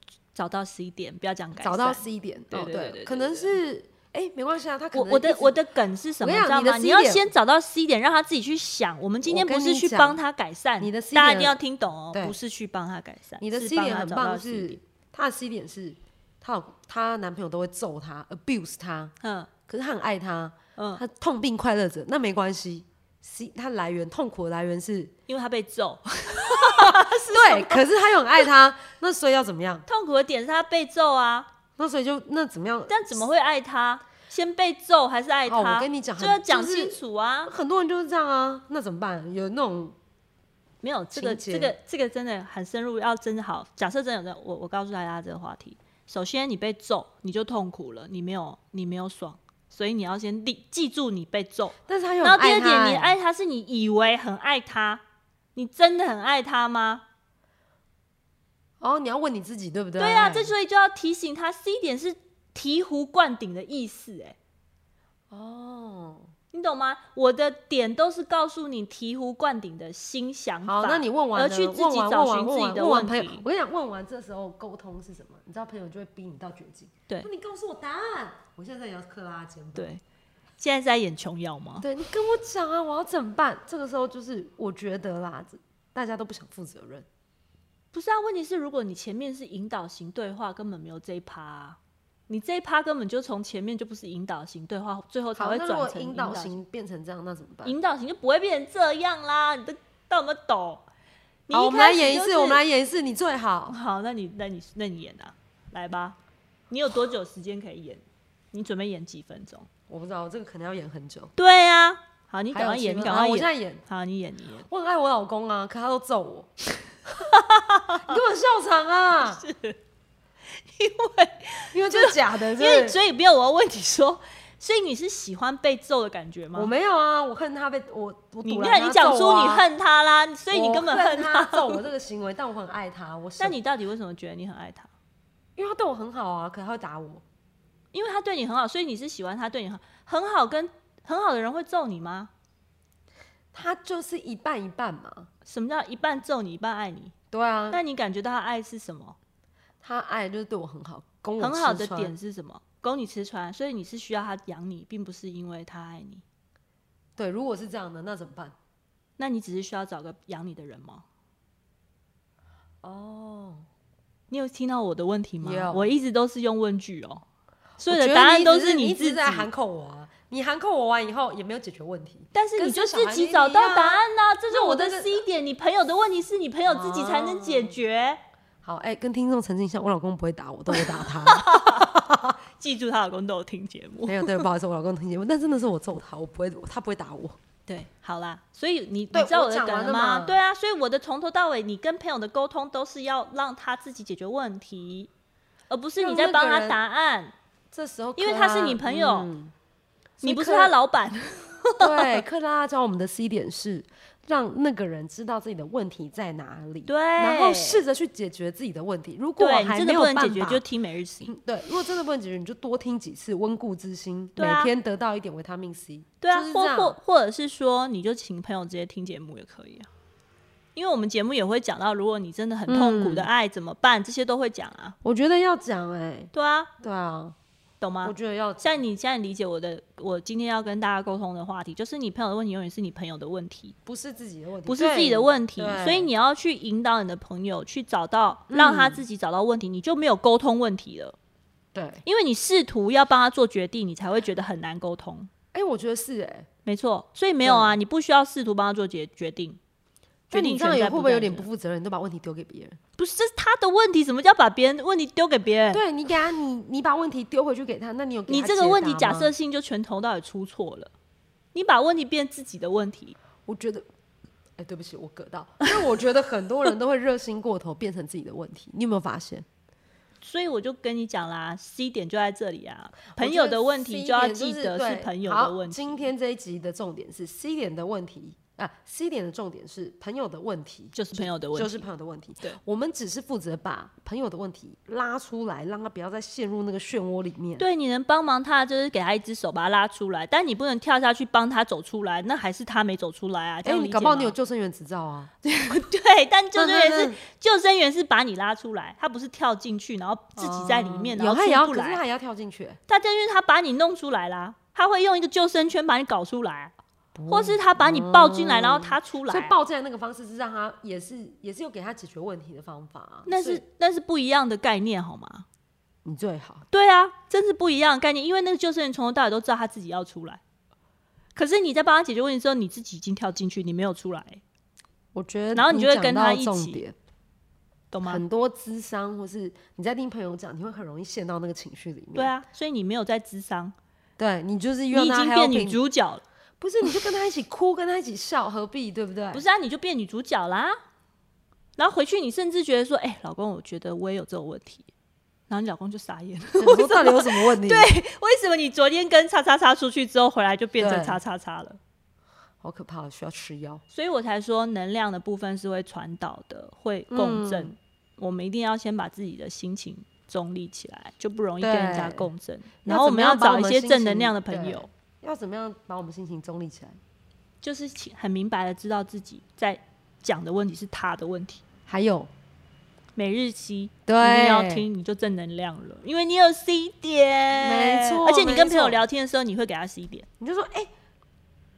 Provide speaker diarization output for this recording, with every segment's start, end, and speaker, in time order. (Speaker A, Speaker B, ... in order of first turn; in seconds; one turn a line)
Speaker A: 0.3-3.5
Speaker B: 1.6-5.6
Speaker A: 4.9-14.8
Speaker B: 6.2-7.3
Speaker B: 9.2-10.2
Speaker B: 10.8-11.6
Speaker B: 13.4-19.1
Speaker A: 19.2-19.5
Speaker B: 19.7-25.1
Speaker A: 20.8-21.0
Speaker A: 25.3-27.8
Speaker B: 26.5-29.9
Speaker A: 29.9-31.5
Speaker B: 31.8-33.2
Speaker A: 32.9-37.5
Speaker B: 35.5-40.0
Speaker A: 40.8-55.0
Speaker B: 41.1-41.7
Speaker B: 51.9-53.1
Speaker A: 55.5-57.0
Speaker B: 58.8-60.5
Speaker A: 60.0-64.3
Speaker B: 65.3-66.3
Speaker A: 66.5-73.4
Speaker B: 70.7-79.9
Speaker A: 79.7-80.0
Speaker A: 80.6-81.8
Speaker B: 81.8-87.0
Speaker A: 87.9-91.8
Speaker A: 92.3-96.6
Speaker B: 95.3-97.8
Speaker A: 97.6-100.8
Speaker A: 101.5-102.6
Speaker B: 101.5-103.7
Speaker A: 103.7-106.2
Speaker A: 106.7-109.7
Speaker B: 109.9-111.3
Speaker A: 111.3-114.7
Speaker B: 112.5-113.8
Speaker B: 114.7-116.5
Speaker A: 117.1-118.2
Speaker B: 118.0-119.4
Speaker A: 119.2-119.8
Speaker A: 120.5-126.7
Speaker B: 121.7-123.0
Speaker B: 126.5-129.6
Speaker A: 128.4-131.8
Speaker B: 130.5-133.6
Speaker A: 133.4-134.9
Speaker B: 135.6-137.2
Speaker A: 137.9-142.3
Speaker B: 143.5-145.3
Speaker A: 145.4-147.1
Speaker B: 147.3-147.8
Speaker A: 147.7-149.2
Speaker B: 149.8-152.1
Speaker A: 151.4-156.2
Speaker B: 157.2-158.5
Speaker A: 159.2-161.0
Speaker B: 162.8-163.7
Speaker A: 164.3-167.2
Speaker B: 165.4-165.9
Speaker B: 167.8-175.2
Speaker A: 167.9-169.5
Speaker A: 172.3-178.2
Speaker B: 176.7-177.8
Speaker B: 178.6-182.3
Speaker A: 180.7-181.9
Speaker A: 182.6-184.4
Speaker B: 184.1-187.4
Speaker A: 187.7-195.1
Speaker B: 189.1-190.4
Speaker A: 195.7-197.3
Speaker B: 196.0-196.8
Speaker B: 197.7-199.5
Speaker A: 198.2-199.3
Speaker B: 200.2-200.8
Speaker A: 200.2-202.2
Speaker B: 201.8-210.6
Speaker A: 206.9-207.8
Speaker A: 209.4-211.3
Speaker B: 211.2-217.0
Speaker A: 214.3-214.7
Speaker A: 216.2-219.9
Speaker A: 220.7-224.9
Speaker B: 222.7-223.3
Speaker B: 225.0-227.3
Speaker A: 226.3-226.7
Speaker A: 227.8-233.8
Speaker B: 228.0-228.8
Speaker B: 233.8-236.1
Speaker A: 234.7-241.2
Speaker B: 238.5-239.1
Speaker B: 241.7-242.0
Speaker A: 242.0-245.3
Speaker B: 245.5-246.5
Speaker A: 246.6-249.6
Speaker B: 247.4-247.8
Speaker A: 250.3-251.5
Speaker B: 250.3-252.8
Speaker A: 253.0-255.8
Speaker B: 255.7-259.3
Speaker A: 258.3-260.9
Speaker A: 261.5-263.1
Speaker B: 263.4-263.9
Speaker B: 264.6-269.4
Speaker A: 270.2-276.1
Speaker B: 273.1-287.6
Speaker A: 280.9-281.8
Speaker A: 287.6-294.3
Speaker B: 293.6-295.3
Speaker A: 295.4-302.0
Speaker B: 296.5-297.2
Speaker B: 300.4-302.8
Speaker A: 302.9-306.7
Speaker B: 307.1-313.6
Speaker A: 307.3-309.5
Speaker A: 313.2-315.4
Speaker B: 316.0-316.6
Speaker A: 316.7-320.4
Speaker A: 321.4-324.4
Speaker B: 325.1-326.9
Speaker A: 325.5-326.8
Speaker A: 327.9-328.2
Speaker B: 328.0-332.3
Speaker A: 332.1-333.7
Speaker B: 334.2-335.8
Speaker A: 334.9-336.2
Speaker B: 336.6-339.4
Speaker A: 339.3-340.8
Speaker A: 341.8-344.9
Speaker A: 345.5-351.8
Speaker B: 346.6-347.9
Speaker B: 350.8-351.2
Speaker B: 352.6-353.8
Speaker A: 353.9-364.9
Speaker B: 357.1-357.7
Speaker B: 361.6-362.3
Speaker B: 362.8-367.0
Speaker A: 367.6-371.6
Speaker B: 371.9-372.3
Speaker A: 373.1-380.2
Speaker B: 374.1-374.9
Speaker B: 377.6-379.0
Speaker B: 380.4-380.9